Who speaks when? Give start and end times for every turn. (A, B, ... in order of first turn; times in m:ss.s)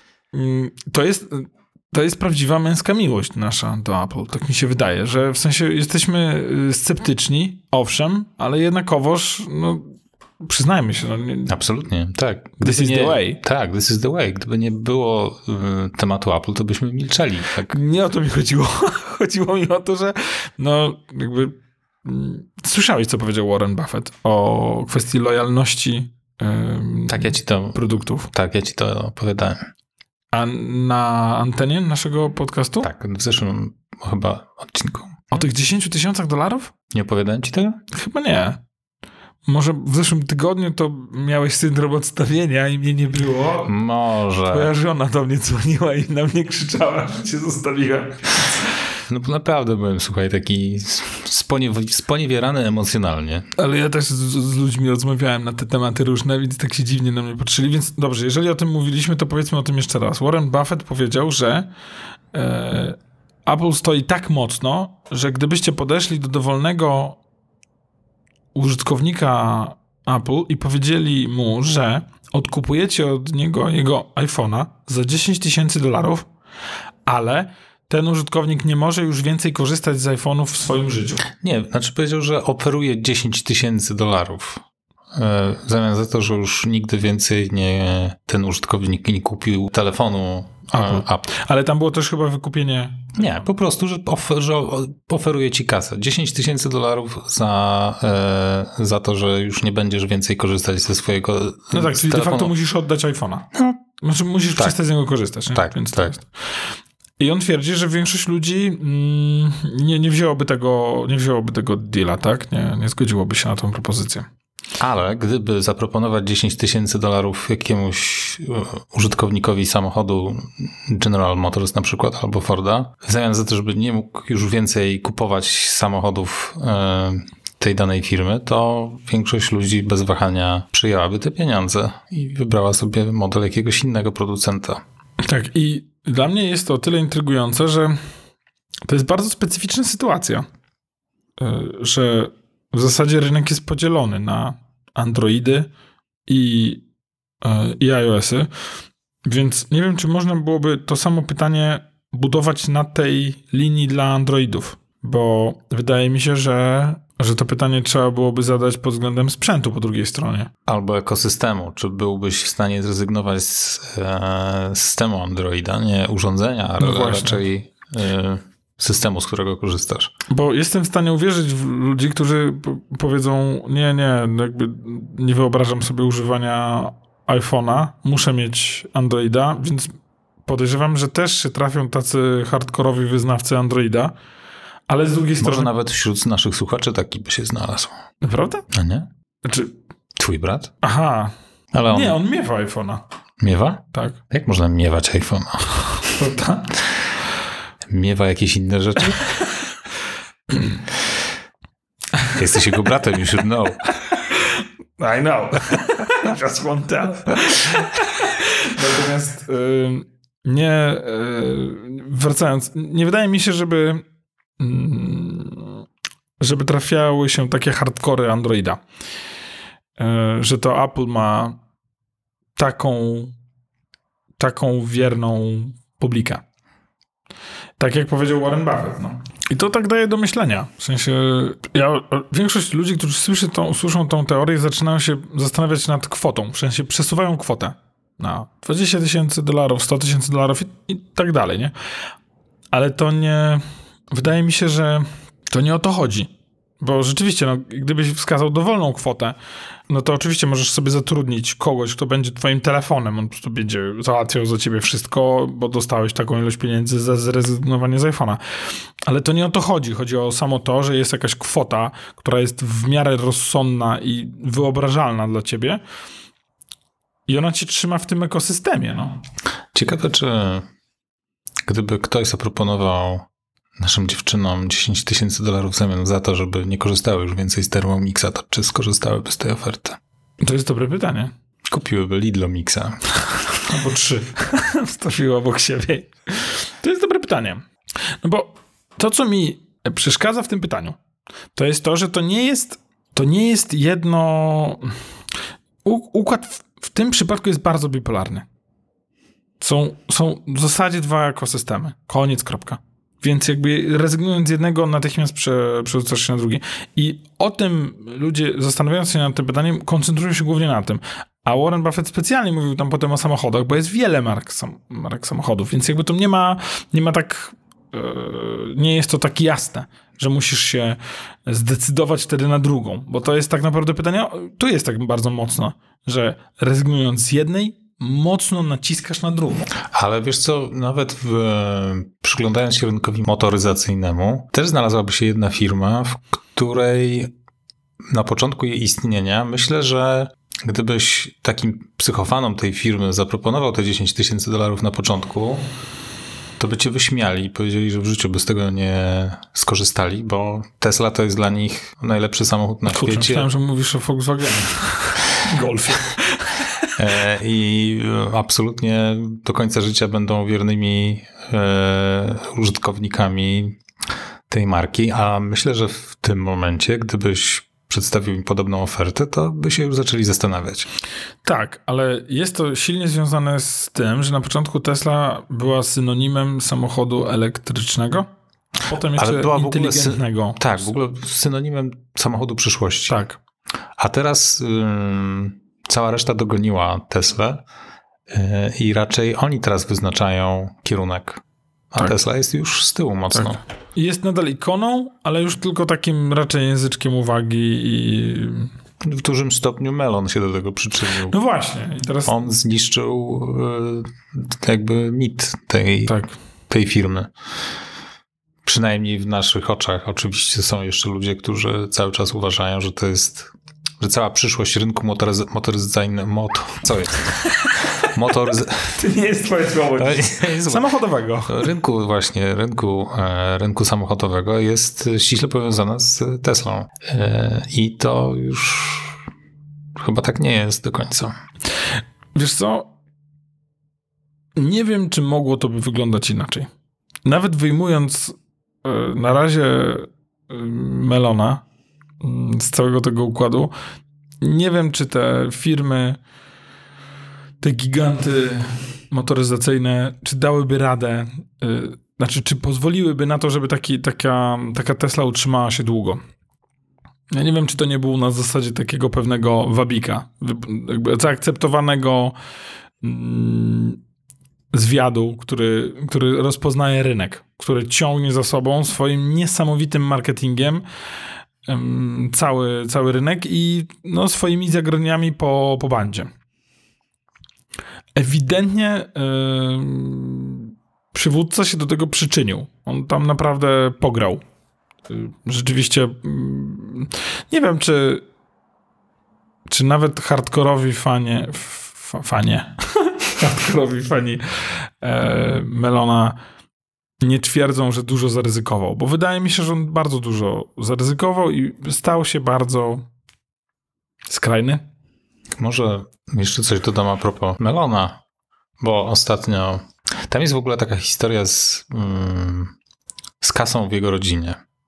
0:00.3-0:11.6 A
0:11.5-0:17.8 B
0:12.6-0:13.4 A
0:17.7-0:28.3 A
0:27.1-0:29.7 B
0:30.3-0:32.9 A
0:32.8-0:35.4 B
0:35.3-0:36.7 A
0:36.9-0:37.8 B
0:37.9-0:38.6 A
0:39.5-0:43.8 A
0:43.7-0:44.7 B
0:44.5-0:48.7 A
0:49.1-0:53.5 B
0:53.6-1:01.7 A
1:02.3-1:07.2 A
1:08.6-1:16.3 A
1:17.1-1:21.2 A
1:21.3-1:31.3 B
1:30.7-1:33.4 A
1:33.2-1:42.5 B
1:41.7-1:46.3 A
1:43.5-1:43.8 B
1:45.5-1:46.2 B
1:47.2-1:54.3 A
1:54.8-2:14.8 B
2:15.2-2:18.0 A
2:18.9-2:20.5 A
2:21.4-2:25.7 A
2:26.3-2:26.8 A
2:27.4-2:28.5 A
2:29.2-2:40.5 A
2:40.7-2:50.1 B
2:46.8-2:47.4 A
2:50.3-2:59.9 A
3:00.5-3:04.1 A
3:04.9-3:05.7 A
3:05.4-3:07.9 B
3:08.2-3:08.7 A
3:08.7-3:09.1 B
3:09.4-3:09.7 A
3:10.2-3:10.7 B
3:10.8-3:11.3 A
3:11.7-3:12.2 B
3:11.9-3:13.0 A
3:13.4-3:15.8 B
3:13.9-3:14.2 A
3:16.1-3:16.8 A
3:17.9-3:19.4 B
3:20.5-3:20.8 A
3:22.3-3:23.9 B
3:24.1-3:34.0 A
3:34.6-3:35.8 A
3:36.4-3:38.8 A
3:40.0-3:41.6 A
3:42.6-3:43.3 A
3:44.4-3:46.4 A
3:47.8-4:01.7 A
4:02.7-4:09.4 A
4:09.9-4:25.8 A
4:27.3-4:29.2 A
4:29.7-4:30.7 B
4:31.7-4:33.3 B
4:33.8-4:40.0 B
4:40.4-4:41.3 A
4:41.7-4:43.0 B
4:43.5-4:47.7 A
4:48.2-4:51.0 A
4:51.6-4:55.0 A
4:55.8-4:58.5 A
4:59.6-5:29.7 A
5:29.8-5:37.3 B
5:38.1-5:45.6 B
5:46.6-5:53.5 B
5:52.9-5:57.0 A
5:57.0-6:03.8 B
6:04.5-6:10.9 B
6:11.4-6:18.3 A
6:18.8-6:20.8 A
6:19.2-6:23.2 B
6:23.1-6:23.4 A
6:24.0-6:27.6 B
6:28.3-6:33.6 B
6:33.3-6:38.7 A
6:39.0-6:41.4 B
6:41.3-6:42.5 A
6:42.3-6:46.2 B
6:46.1-6:46.3 A
6:46.7-6:47.3 B
6:48.6-6:57.4 B
6:57.4-6:57.9 A
6:58.0-6:59.0 B
6:58.9-7:01.7 A
7:00.0-7:00.9 B
7:01.5-7:09.2 B
7:10.0-7:11.3 B
7:12.4-7:12.9 A
7:14.6-7:16.7 A
7:17.3-7:21.6 A
7:22.2-7:23.7 A
7:24.4-7:26.2 A
7:27.6-7:36.2 A
7:37.3-7:42.4 A
7:43.0-7:44.0 A
7:44.7-7:50.8 A
7:51.7-7:56.3 A
7:58.2-8:04.4 A
8:05.1-8:08.2 A
8:09.7-8:16.4 A
8:17.2-8:23.1 A
8:24.3-8:24.8 A
8:25.6-8:28.2 B
8:28.8-8:32.8 B
8:33.4-8:34.6 B